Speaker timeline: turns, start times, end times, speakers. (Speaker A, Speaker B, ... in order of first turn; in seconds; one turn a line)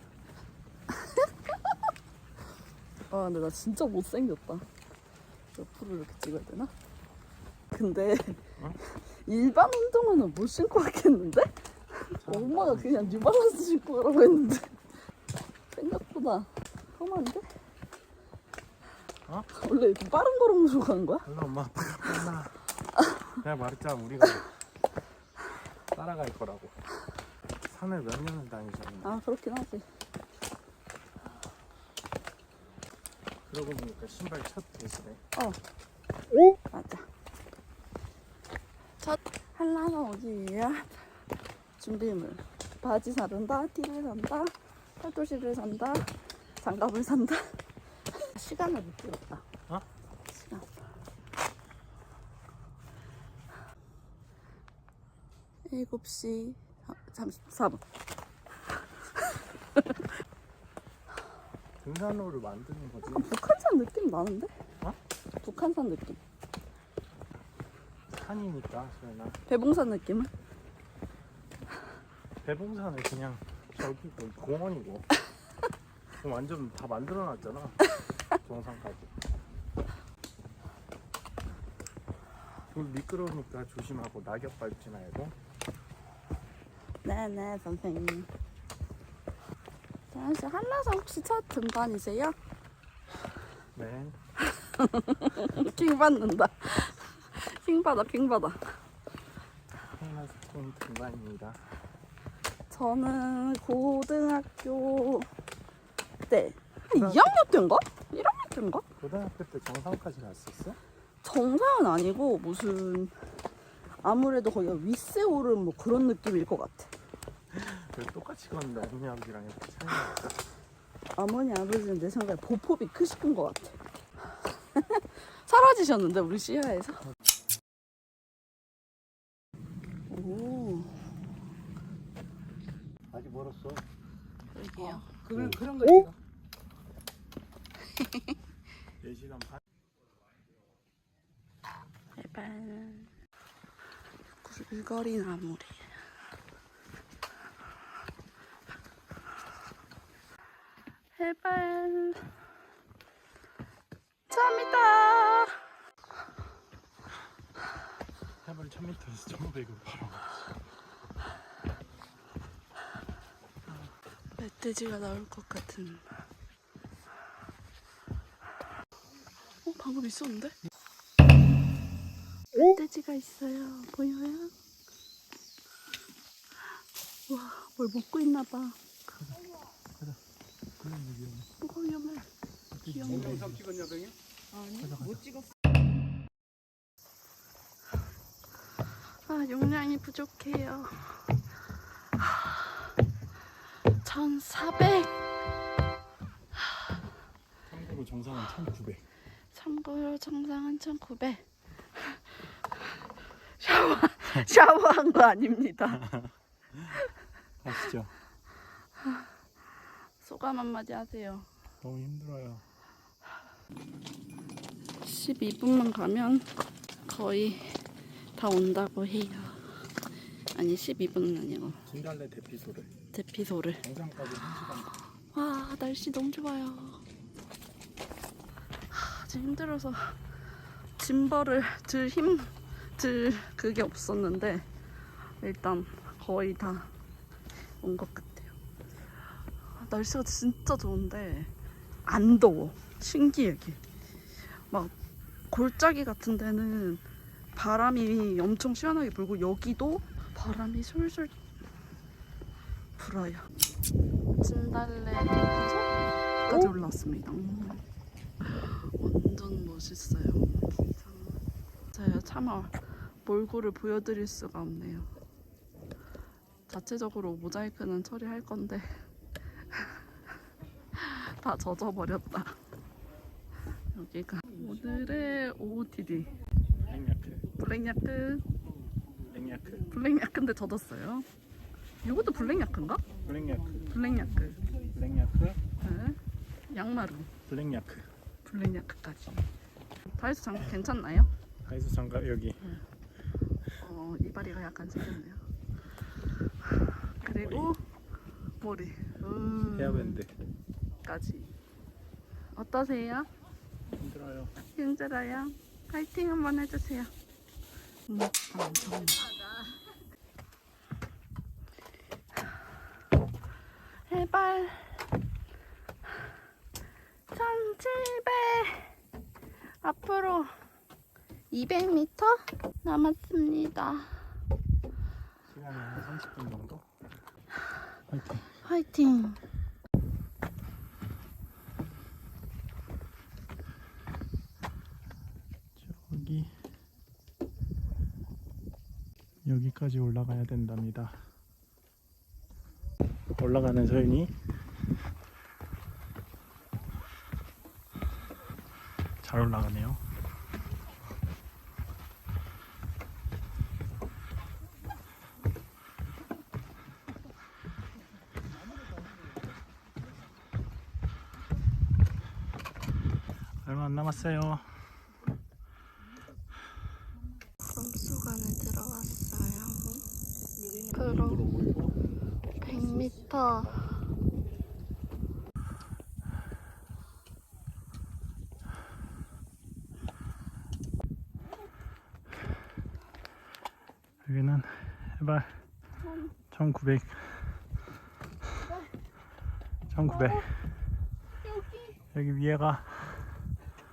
Speaker A: 0.9-1.8
Speaker A: 3.1-4.7
Speaker A: 5.5-6.7
Speaker A: 7.7-14.8
Speaker B: 12.2-13.3
Speaker A: 15.7-17.4
Speaker A: 19.5-21.3
Speaker B: 21.2-22.6
Speaker B: 23.4-24.5
Speaker B: 25.9-26.8
Speaker B: 27.6-29.2
Speaker A: 29.0-29.9
Speaker B: 33.5-35.2
Speaker A: 35.3-35.6
Speaker A: 36.7-37.1
Speaker A: 39.0-41.1
Speaker A: 41.8-47.6
Speaker A: 48.1-49.5
Speaker A: 50.3-50.7
Speaker A: 55.7-57.8
Speaker A: 59.2-60.0
Speaker B: 61.8-63.3
Speaker A: 63.1-64.5
Speaker A: 65.4-66.2
Speaker B: 68.1-69.4
Speaker A: 69.5-70.3
Speaker B: 72.4-75.1
Speaker B: 76.2-77.8
Speaker B: 78.4-79.1
Speaker B: 82.7-85.3
Speaker A: 87.0-88.3
Speaker A: 90.1-92.3
Speaker B: 93.8-94.2
Speaker A: 94.5-98.8
Speaker B: 99.9-101.6
Speaker A: 102.7-105.3
Speaker A: 106.3-108.8
Speaker B: 106.9-107.3
Speaker B: 109.0-110.8
Speaker A: 111.2-113.1
Speaker A: 114.0-116.9
Speaker B: 117.5-120.4
Speaker A: 121.2-123.8
Speaker A: 124.7-127.0
Speaker A: 130.1-130.9
Speaker B: 133.1-133.7
Speaker A: 134.5-135.0
Speaker C: 134.8-136.2
Speaker B: 139.0-139.6
Speaker A: 142.2-143.1
Speaker A: 144.4-145.9
Speaker A: 151.2-152.2
Speaker A: 154.3-155.6
Speaker B: 158.4-160.5
Speaker A: 164.4-166.1
Speaker A: 169.6-170.5
Speaker A: 172.6-174.5
Speaker A: 177.3-178.9
Speaker B: 180.8-181.5
Speaker A: 181.6-182.3
Speaker B: 182.8-183.7
Speaker A: 182.8-183.6
Speaker C: 183.1-184.1
Speaker B: 184.6-185.3
Speaker A: 189.1-191.4
Speaker A: 192.2-192.7
Speaker A: 193.9-195.2
Speaker B: 197.7-199.0
Speaker A: 199.5-201.4
Speaker A: 203.6-206.1
Speaker B: 207.6-208.1
Speaker A: 210.2-211.5
Speaker B: 211.8-212.6
Speaker A: 215.0-216.5
Speaker A: 217.1-217.8
Speaker A: 218.3-219.9
Speaker A: 220.5-221.8
Speaker B: 221.9-222.9
Speaker A: 223.1-223.8
Speaker B: 223.8-224.9
Speaker A: 225.3-227.0
Speaker A: 228.9-230.2
Speaker A: 231.0-234.7
Speaker A: 235.2-236.9
Speaker A: 237.8-238.6
Speaker A: 239.8-241.5
Speaker A: 242.1-243.8
Speaker A: 244.6-244.9
Speaker A: 245.5-247.0
Speaker A: 247.6-251.3
Speaker A: 253.0-253.5
Speaker A: 254.4-257.8
Speaker A: 258.4-261.4
Speaker A: 261.9-265.1
Speaker A: 266.7-269.0
Speaker A: 270.9-272.6
Speaker A: 273.9-276.3
Speaker B: 276.9-277.5
Speaker A: 277.6-278.4
Speaker B: 279.3-279.9
Speaker A: 279.9-281.3
Speaker A: 282.0-283.0
Speaker B: 283.2-283.9
Speaker A: 283.8-284.6
Speaker B: 284.7-285.6
Speaker A: 285.8-287.3
Speaker B: 287.5-288.1
Speaker A: 288.4-289.4
Speaker A: 290.1-291.3
Speaker B: 291.6-292.6
Speaker A: 293.8-295.4
Speaker A: 297.2-297.8
Speaker B: 297.3-297.7
Speaker A: 298.6-300.2
Speaker B: 299.7-300.3
Speaker A: 301.0-301.5
Speaker A: 302.5-303.3
Speaker B: 303.9-304.5
Speaker A: 304.8-307.1
Speaker A: 308.1-309.3
Speaker A: 314.1-315.0
Speaker A: 317.3-318.9
Speaker A: 319.8-320.5
Speaker A: 321.5-324.2
Speaker B: 325.4-326.9
Speaker B: 328.1-328.5
Speaker A: 328.6-329.4
Speaker B: 335.8-336.5
Speaker B: 339.4-341.2
Speaker B: 343.4-344.3
Speaker B: 349.2-350.0
Speaker B: 363.6-364.7
Speaker A: 367.6-370.1
Speaker A: 370.9-371.4
Speaker B: 370.9-371.9
Speaker A: 372.6-373.8
Speaker B: 384.2-385.6
Speaker B: 386.5-387.6
Speaker B: 389.9-390.5
Speaker A: 390.1-390.5
Speaker A: 391.5-391.9
Speaker B: 392.1-393.3